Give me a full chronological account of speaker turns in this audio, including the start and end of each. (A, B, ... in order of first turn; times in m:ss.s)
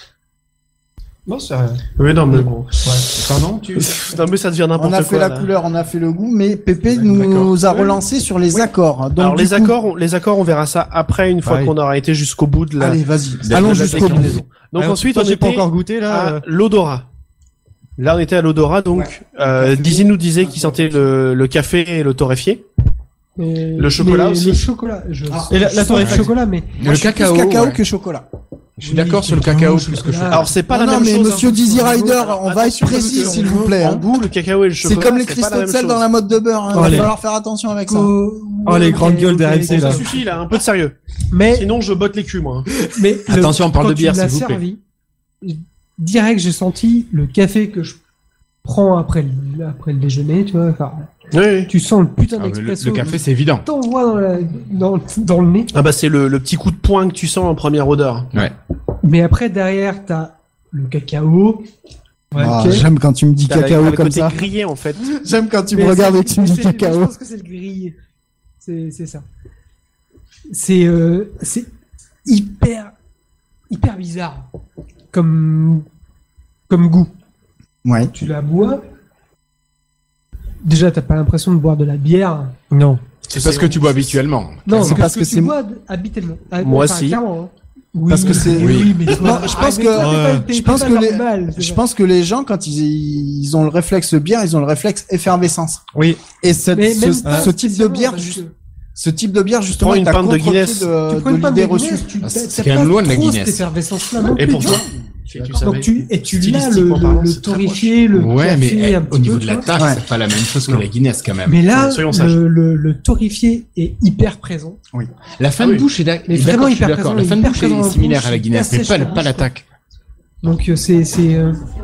0:01.3-0:01.8 A
0:02.0-0:05.5 B
0:04.8-0:09.8 C
0:07.1-0:07.5 D
0:09.2-0:17.1 B
0:11.4-0:11.7 A
0:12.8-0:14.4 C
0:13.5-0:14.2 D
0:14.8-0:16.4 A
0:18.0-0:22.6 B
0:18.9-0:21.0 C
0:23.4-0:26.8 E
0:23.8-0:24.7 B
0:25.3-0:25.7 C
0:25.5-0:26.3 A
0:26.0-0:26.2 D
0:26.8-0:27.8 D
0:26.8-0:28.2 C
0:28.8-0:30.4 D
0:28.8-0:32.2 E
0:30.3-0:36.0 B
0:30.7-0:34.0 C
0:32.8-0:33.7 E
0:34.8-0:38.1 C
0:36.7-0:37.1 A
0:36.7-0:37.1 E
0:37.8-0:40.2 E
0:38.6-0:40.0 A
0:39.6-0:42.7 B
0:41.3-0:41.7 E
0:42.9-0:44.8 E
0:43.2-0:44.6 D
0:45.4-0:48.0 E
0:48.6-0:51.1 E
0:51.3-0:51.7 B
0:51.7-0:55.7 E
0:52.4-0:53.6 D
0:55.7-0:58.3 B
0:59.0-1:01.7 E
1:02.3-1:02.8 E
1:02.4-1:04.4 C
1:03.5-1:05.1 B
1:05.1-1:07.1 C
1:05.7-1:08.0 E
1:08.6-1:09.2 E
1:10.5-1:11.7 E
1:12.2-1:12.9 E
1:13.7-1:14.5 E
1:15.1-1:15.8 E
1:16.7-1:17.1 E
1:17.8-1:18.1 C
1:18.1-1:18.8 E
1:20.6-1:22.7 E
1:22.7-1:23.0 A
1:23.3-1:24.1 B
1:23.3-1:25.0 D
1:24.6-1:31.8 E
1:24.7-1:25.6 C
1:26.6-1:27.2 B
1:28.1-1:35.8 C
1:28.5-1:29.0 D
1:29.9-1:30.4 A
1:35.9-1:36.2 A
1:36.4-1:38.4 C
1:36.7-1:38.5 E
1:39.0-1:42.1 C
1:39.8-1:40.9 B
1:41.0-1:44.8 E
1:42.2-1:43.7 D
1:44.4-1:48.0 B
1:44.5-1:45.6 C
1:45.6-1:49.7 E
1:48.1-1:51.7 D
1:49.8-1:50.0 C
1:51.4-1:54.8 E
1:51.7-1:52.4 B
1:55.4-1:59.6 D
1:55.6-1:55.8 B
1:56.2-1:59.5 E
2:00.4-2:01.6 E